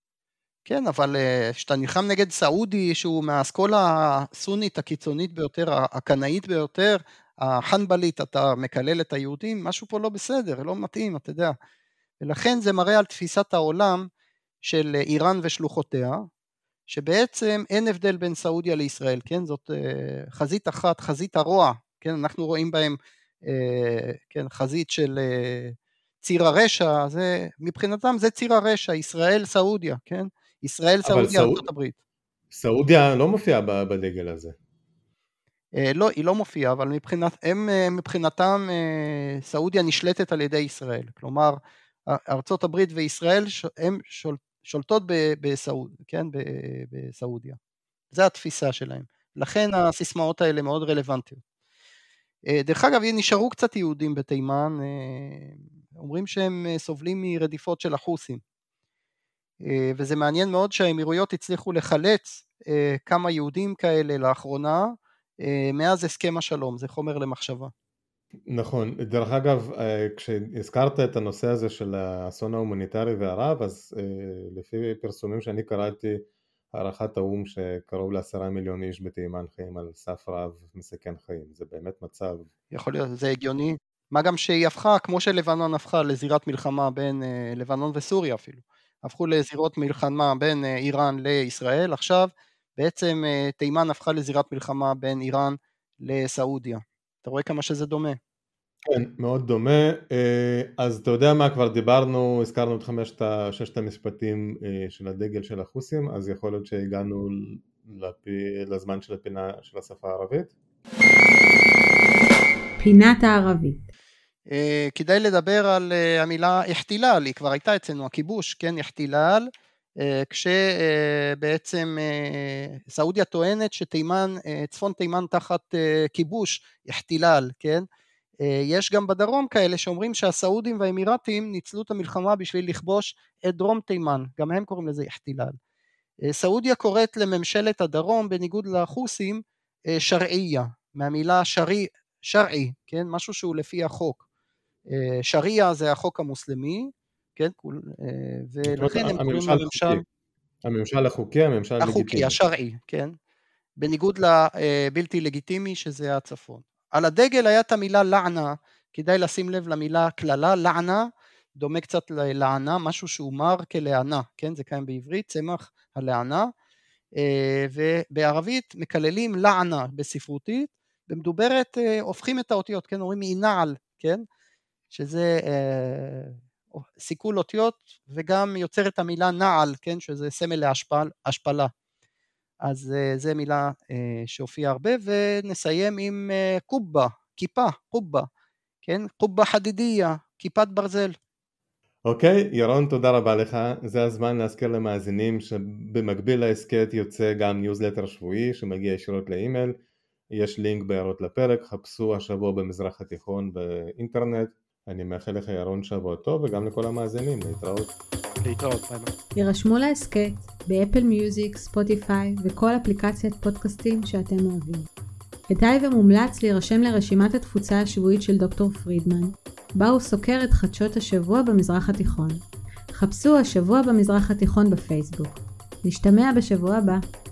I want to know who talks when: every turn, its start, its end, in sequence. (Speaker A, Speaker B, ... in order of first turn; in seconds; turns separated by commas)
Speaker A: 0.7-11.6, Speaker A: 12.2-14.1, Speaker A: 14.6-16.3, Speaker A: 16.9-31.9, Speaker B: 31.1-31.6, Speaker B: 32.5-34.5, Speaker A: 35.8-41.6, Speaker A: 42.1-47.6, Speaker A: 48.1-51.4, Speaker A: 52.5-58.4, Speaker A: 59.6-67.7, Speaker B: 68.5-76.2, Speaker B: 76.7-82.5, Speaker A: 82.7-98.2, Speaker B: 98.8-110.5, Speaker C: 112.8-113.8, Speaker A: 114.5-119.5, Speaker A: 120.0-127.8, Speaker A: 128.4-135.6, Speaker A: 136.3-144.2, Speaker A: 144.9-150.0, Speaker B: 148.6-150.0, Speaker B: 150.6-152.4, Speaker A: 151.8-153.1, Speaker A: 153.8-166.5, Speaker A: 167.2-174.2, Speaker A: 174.9-176.4, Speaker A: 176.9-181.7, Speaker A: 182.6-188.3, Speaker A: 188.8-191.1, Speaker B: 192.1-199.7, Speaker B: 200.3-207.9, Speaker A: 208.4-209.1, Speaker C: 209.4-214.9, Speaker C: 215.5-222.4, Speaker C: 222.9-227.0